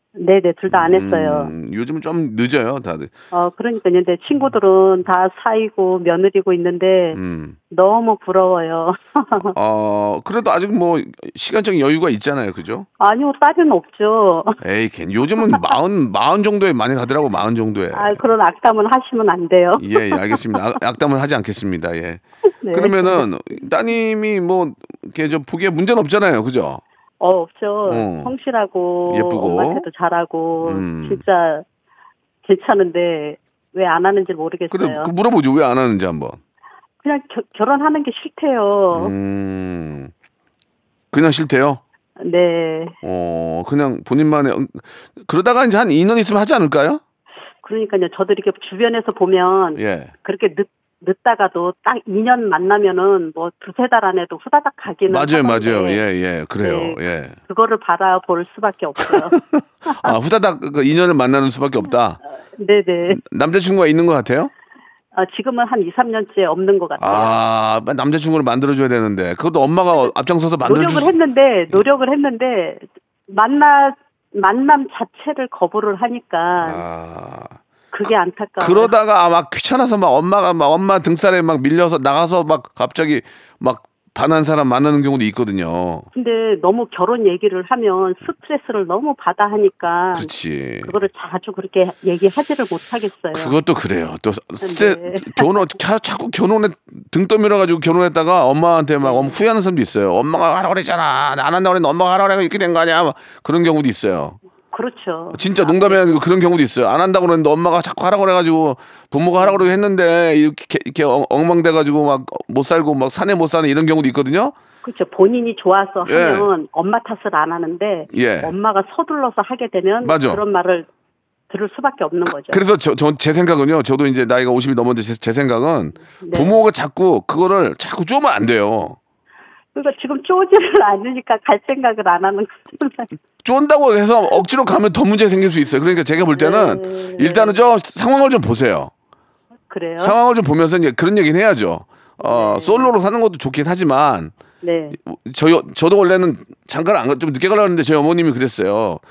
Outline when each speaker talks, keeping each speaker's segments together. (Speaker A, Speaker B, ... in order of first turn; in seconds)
Speaker A: 0.1-1.5, 3.3-7.2, 7.7-9.5, 13.0-14.6, 17.9-20.6, 22.6-23.2, 27.2-31.6, 32.4-35.1, 37.0-39.1, 42.2-42.9, 47.6-56.0, 56.6-60.1, 62.4-63.2, 65.1-67.4, 70.6-76.8, 77.9-78.9, 86.1-90.3, 90.8-93.6, 94.6-95.5, 99.0-99.4, 104.7-106.0, 109.4-109.7, 114.8-120.9, 121.5-122.6, 126.2-126.6, 129.7-133.1, 136.3-137.6, 139.7-140.2, 142.2-142.9, 144.6-145.0
Speaker B: 0.7-3.1, 7.1-7.6, 9.5-12.9, 14.6-18.2, 19.8-22.2, 22.7-26.8, 27.9-28.3, 29.1-29.9, 30.6-31.2, 34.7-36.4, 38.9-40.1, 41.1-41.8, 43.0-47.0, 49.8-50.1, 55.1-57.4, 59.0-62.2, 63.1-64.5, 67.0-71.2, 76.6-86.1, 90.2-90.9, 93.3-104.4, 105.3-114.5, 116.0-116.5, 118.1-118.5, 120.0-120.4, 122.3-129.0, 133.4-138.9, 140.0-144.3, 145.0-149.0